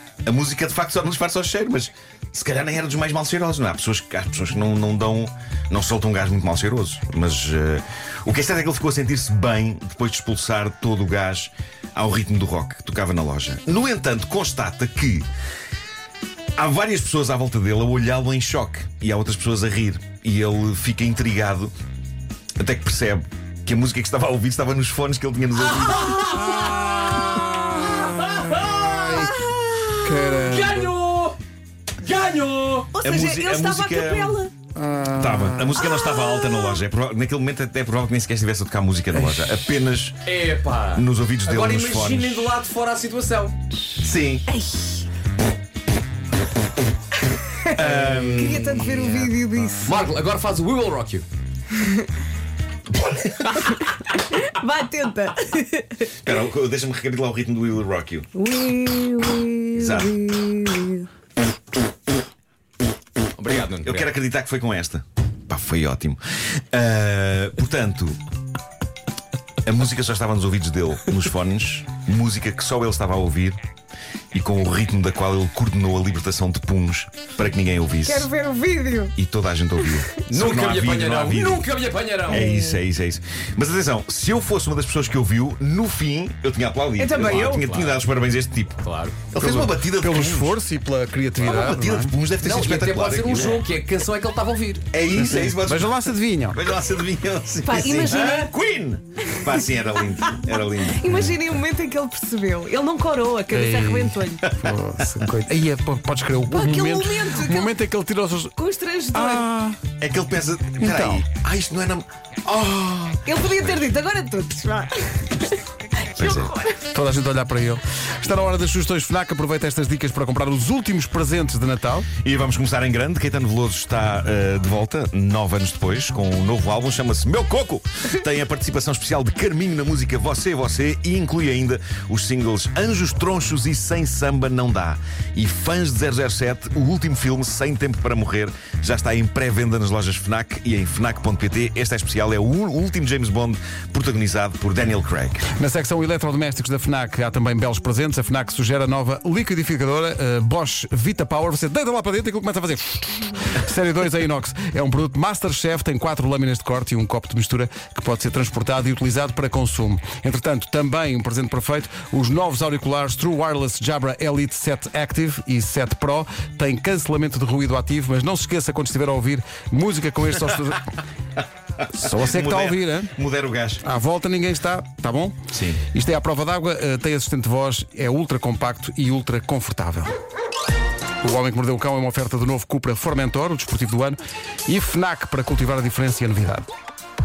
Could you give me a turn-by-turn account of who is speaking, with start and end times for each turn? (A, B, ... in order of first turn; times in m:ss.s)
0:00.2-0:15.3 A
0:16.6-0:21.7 A
0:22.6-0:26.2 A
0:25.7-0:31.4 B
0:28.8-0:29.4 C
0:30.0-0:30.9 C
0:32.0-0:32.9 B
0:32.9-0:34.5 D
0:33.0-0:34.4 A
0:34.8-0:35.7 C
0:35.1-0:40.2 A
0:35.8-0:36.7 D
0:40.2-0:43.7 B
0:40.9-0:42.5 A
0:44.0-0:44.5 A
0:44.5-0:45.0 D
0:47.5-0:47.8 D
0:47.7-0:48.8 A
0:47.7-0:51.2 B
0:48.4-0:50.1 D
0:51.7-0:52.1 D
0:53.0-0:53.6 A
0:53.8-0:56.2 D
0:56.2-0:58.3 A
0:58.3-1:01.1 D
0:59.8-1:00.2 A
1:03.3-1:04.1 B
1:03.8-1:08.2 A
1:09.6-1:13.6 A
1:14.3-1:18.3 A
1:18.0-1:19.1 D
1:19.1-1:21.7 A
1:20.3-1:22.4 B
1:22.2-1:30.6 A
1:22.3-1:22.8 D
1:27.0-1:27.6 D
1:27.1-1:28.0 B
1:28.8-1:29.2 B
1:29.4-1:32.1 C
1:31.4-1:33.7 A
1:32.4-1:34.9 B
1:34.9-1:41.1 A
1:35.1-1:36.6 C
1:37.6-1:38.5 D
1:39.2-1:39.6 D
1:40.1-1:44.4 D
1:41.1-1:41.4 C
1:43.5-1:48.5 C
1:44.5-1:45.2 A
1:46.5-1:47.7 D
1:48.6-1:49.5 D
1:49.1-1:49.8 C
1:50.0-1:53.3 A
1:50.8-1:51.2 C
1:53.2-1:56.8 D
1:56.2-1:56.5 A
1:56.9-2:02.1 C
2:02.2-2:25.5 A
2:25.6-2:50.9 C
2:51.9-2:53.1 C
2:52.0-2:53.8 A
2:53.8-2:55.4 C
2:55.5-2:55.8 A
2:55.9-3:00.1 C
3:01.2-3:06.7 C